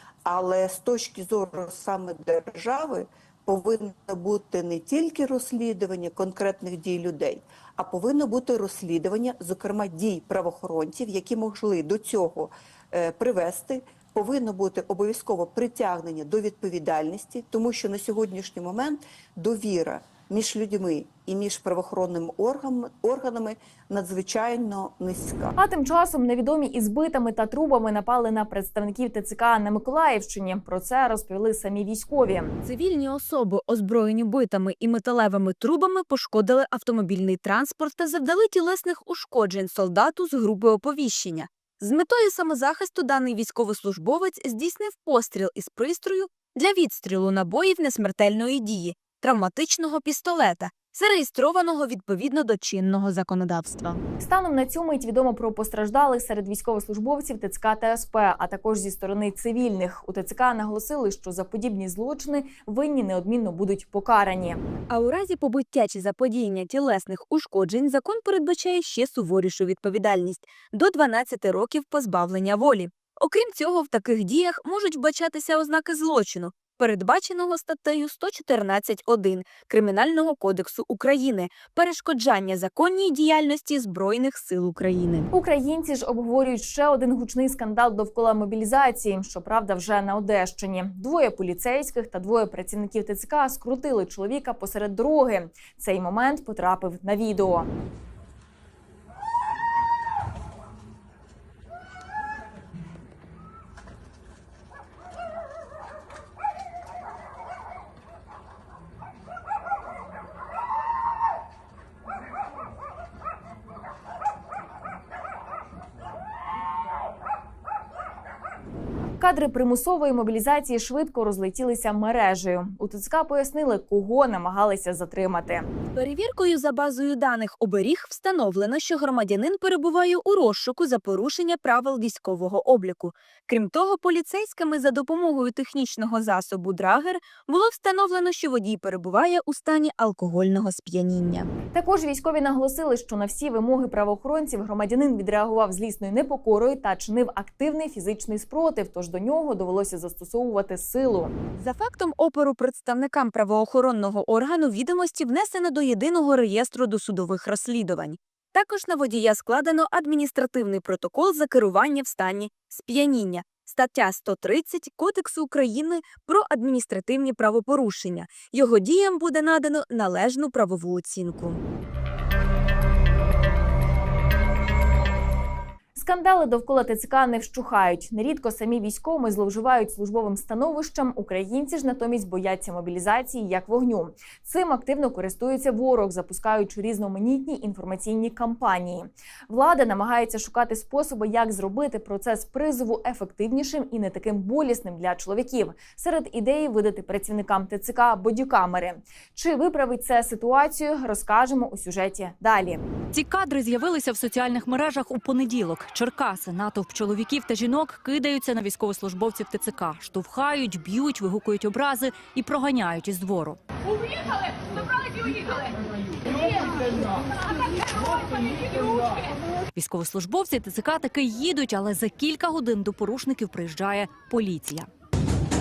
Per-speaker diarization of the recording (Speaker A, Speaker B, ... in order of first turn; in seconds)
Speaker A: 0.2-25.5
Speaker B: 25.6-32.5, 54.2-64.6, 85.3-97.7, 119.2-125.7, 141.7-151.3, 175.9-202.8
Speaker C: 32.6-54.0, 64.9-85.3, 125.9-141.5, 151.6-171.6
Speaker D: 203.1-213.6, 219.7-224.9